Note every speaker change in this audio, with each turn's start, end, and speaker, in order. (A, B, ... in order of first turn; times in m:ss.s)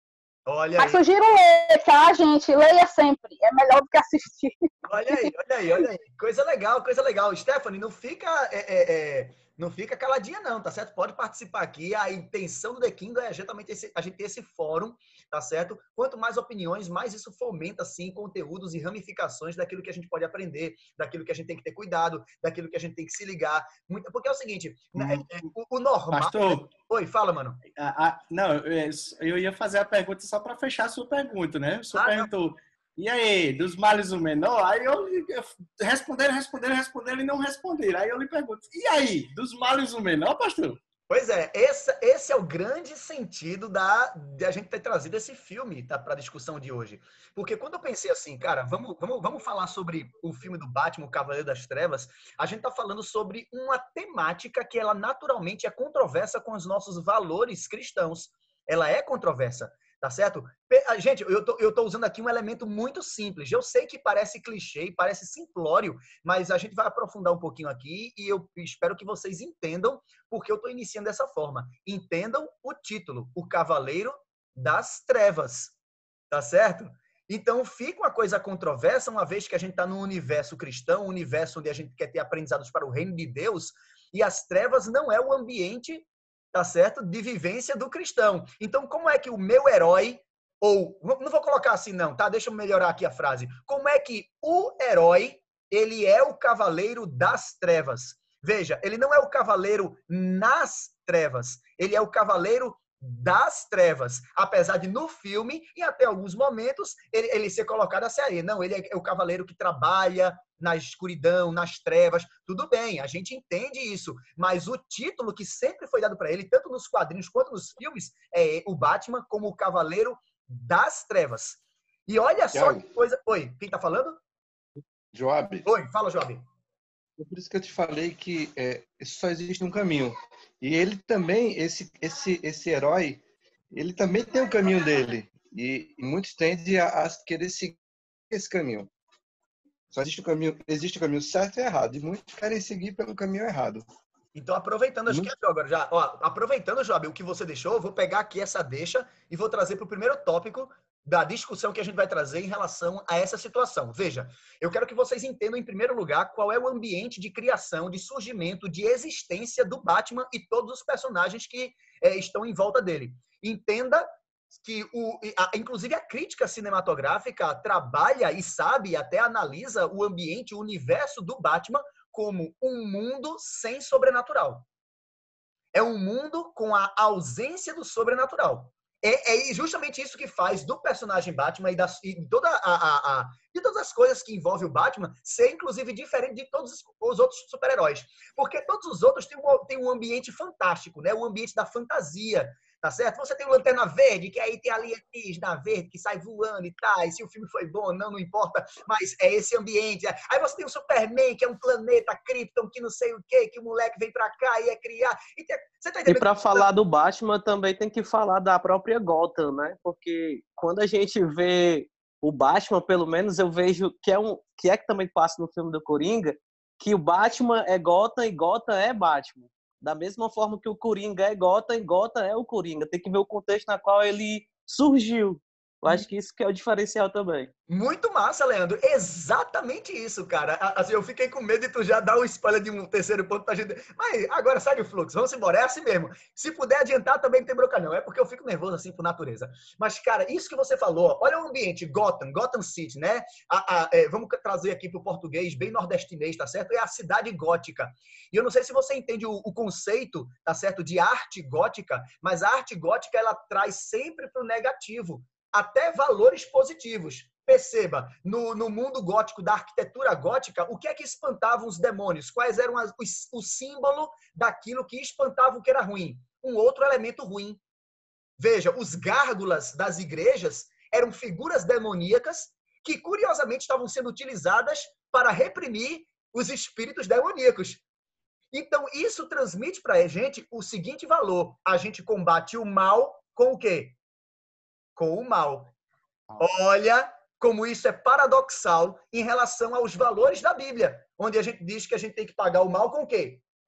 0:00.4-0:01.0 A
0:00.8-0:05.3 B
0:04.8-0:27.6 A
0:26.1-0:26.7 C
0:27.8-0:40.8 C
0:31.9-0:32.3 A
0:41.1-1:15.7 A
1:16.3-2:04.2 A
2:02.5-2:02.8 D
2:05.1-2:05.7 D
2:05.6-2:06.4 A
2:07.2-2:13.2 D
2:13.7-2:17.8 D
2:18.3-2:18.9 D
2:19.9-2:23.8 D
2:24.3-2:54.6 A
2:55.7-3:26.7 A
3:26.0-3:47.5 E
3:47.7-4:27.6 A
4:28.4-4:37.8 A
4:38.5-4:44.0 A
4:45.0-4:45.7 A
4:46.4-4:53.4 A